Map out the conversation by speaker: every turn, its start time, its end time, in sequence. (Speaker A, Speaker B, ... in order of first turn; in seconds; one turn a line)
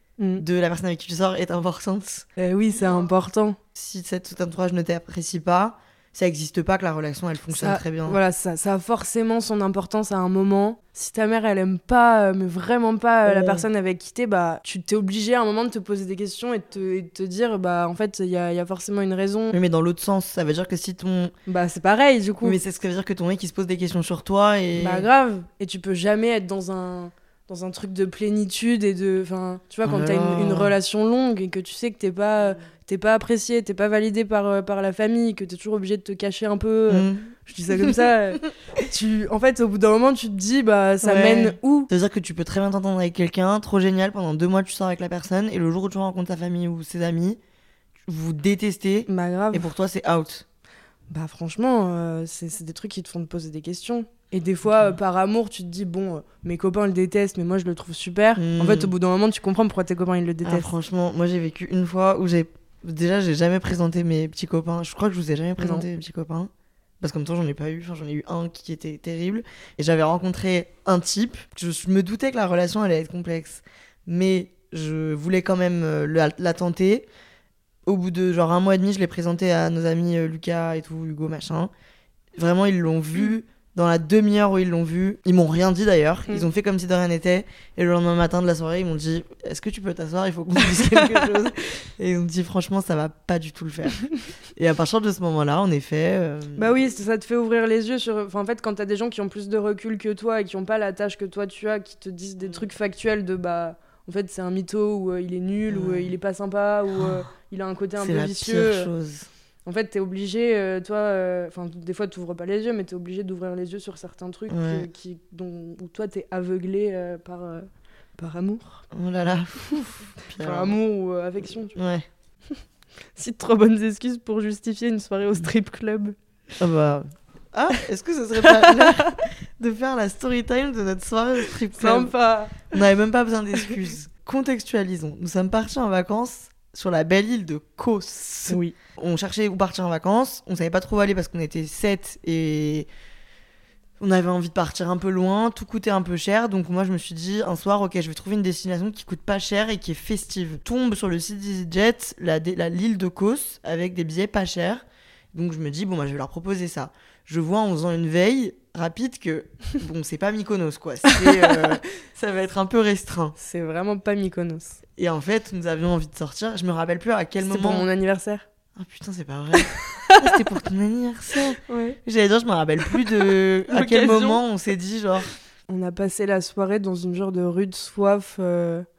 Speaker A: 0.2-0.4
Speaker B: 0.4-2.3
Speaker A: 2.4-3.6
Speaker B: 3.7-8.2
Speaker A: 7.5-19.6
Speaker B: 13.2-13.7
Speaker B: 19.5-21.3
Speaker A: 21.5-22.6
Speaker B: 22.4-25.1
Speaker A: 24.8-41.9
Speaker B: 29.8-30.8
Speaker B: 36.9-38.1
Speaker B: 41.0-47.4
Speaker B: 48.1-50.5
Speaker A: 49.1-49.7
Speaker A: 51.1-60.7
Speaker B: 58.4-58.9
Speaker B: 60.4-66.5
Speaker A: 65.6-65.9
Speaker B: 67.0-77.1
Speaker B: 77.9-81.7
Speaker B: 82.4-96.7
Speaker A: 90.8-91.2
Speaker A: 96.6-108.9
Speaker B: 105.7-106.1
Speaker B: 108.0-109.3
Speaker A: 109.7-118.9
Speaker B: 114.5-114.9
Speaker B: 118.9-120.8
Speaker A: 120.4-121.8
Speaker B: 121.7-122.1
Speaker A: 123.2-126.2
Speaker B: 126.6-132.1
Speaker A: 128.4-129.2
Speaker A: 131.8-132.8
Speaker B: 132.7-142.9
Speaker A: 138.5-138.8
Speaker B: 144.0-163.3
Speaker A: 161.1-161.5
Speaker A: 163.4-164.8
Speaker B: 165.0-167.9
Speaker A: 167.4-168.5
Speaker B: 168.8-175.3
Speaker A: 169.6-170.4
Speaker A: 171.6-172.0
Speaker A: 173.7-174.4
Speaker A: 175.7-178.9